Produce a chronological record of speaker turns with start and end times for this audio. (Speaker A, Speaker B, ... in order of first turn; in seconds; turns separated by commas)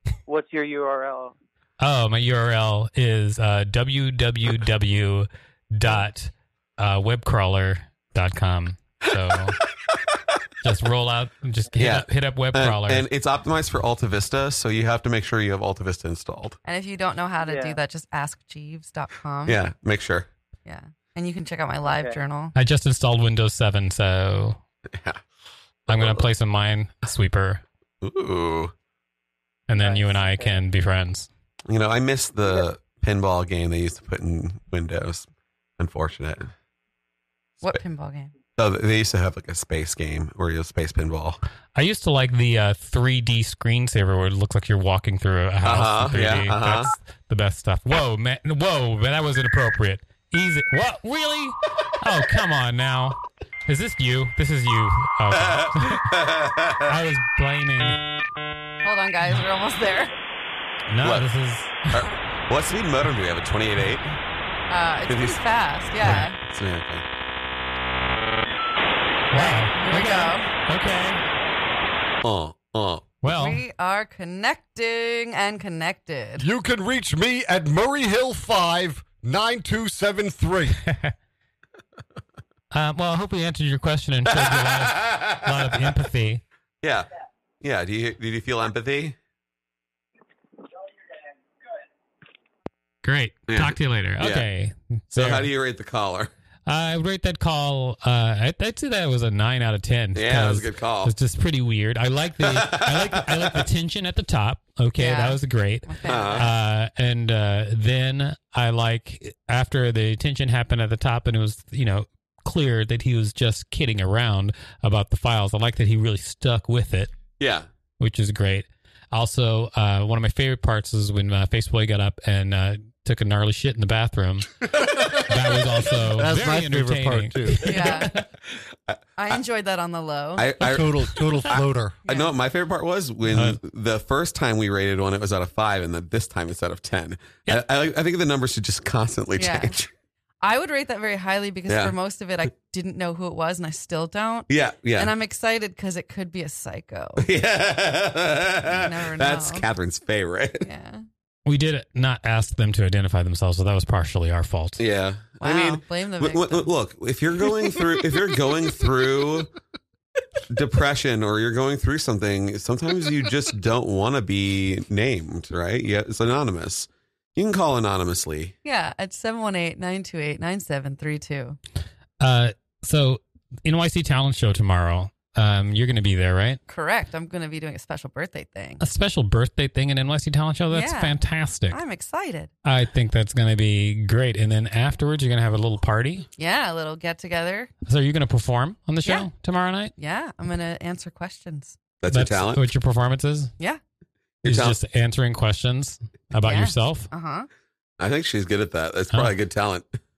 Speaker A: 0.3-1.4, Speaker B: 1.8-9.6, Speaker B: 10.6-13.1, Speaker C: 11.8-16.6, Speaker D: 16.6-19.6, Speaker A: 17.4-17.8, Speaker C: 19.5-20.3, Speaker D: 20.7-22.5, Speaker A: 21.8-22.2, Speaker B: 22.5-24.6, Speaker C: 24.9-25.2, Speaker C: 25.9-26.3, Speaker B: 25.9-27.6, Speaker C: 28.0-28.7, Speaker B: 29.7-31.3, Speaker A: 29.7-30.6, Speaker C: 31.7-35.3, Speaker C: 35.8-36.5, Speaker D: 37.6-38.3, Speaker C: 38.6-41.4, Speaker B: 41.8-56.1, Speaker C: 45.6-46.9, Speaker C: 55.4-56.9, Speaker B: 56.8-58.0, Speaker D: 58.8-60.1, Speaker B: 60.9-62.0, Speaker C: 61.9-64.0, Speaker D: 64.7-66.4, Speaker C: 65.1-65.4, Speaker C: 66.4-67.0, Speaker B: 69.3-71.2, Speaker D: 69.3-70.5, Speaker C: 72.2-73.1, Speaker B: 73.2-73.6, Speaker D: 73.2-76.5, Speaker E: 76.4-80.8, Speaker B: 80.8-81.1, Speaker B: 82.7-86.4, Speaker C: 84.4-85.4, Speaker C: 86.8-87.1, Speaker C: 87.6-89.2, Speaker B: 93.0-95.5, Speaker C: 93.5-94.5, Speaker C: 95.1-96.3, Speaker B: 96.7-117.1, Speaker C: 100.2-101.1, Speaker C: 102.4-103.6, Speaker D: 105.0-106.5, Speaker C: 106.1-106.5, Speaker C: 117.4-117.7, Speaker B: 118.0-124.6, Speaker B: 125.2-128.3, Speaker E: 126.1-128.0, Speaker D: 127.7-128.1, Speaker D: 129.2-130.5, Speaker C: 130.4-139.9, Speaker E: 130.6-132.0, Speaker D: 132.1-132.3, Speaker B: 133.3-133.6, Speaker D: 139.4-139.8, Speaker D: 140.4-147.3, Speaker C: 141.7-141.9, Speaker C: 144.5-145.1, Speaker C: 147.2-150.7, Speaker D: 148.7-149.7, Speaker D: 150.6-151.0, Speaker B: 151.5-154.8, Speaker C: 154.8-159.5, Speaker D: 155.4-156.7, Speaker C: 160.5-168.5, Speaker D: 168.6-171.6, Speaker B: 172.2-176.6, Speaker D: 176.7-178.8, Speaker B: 178.8-181.8, Speaker D: 180.7-181.2, Speaker D: 181.7-182.5, Speaker B: 182.7-186.3, Speaker D: 186.4-187.7, Speaker B: 187.9-189.9, Speaker D: 190.0-191.8, Speaker C: 192.0-192.7, Speaker B: 192.1-193.5, Speaker C: 194.4-194.8, Speaker B: 194.4-197.1, Speaker D: 196.4-197.5, Speaker C: 198.0-199.9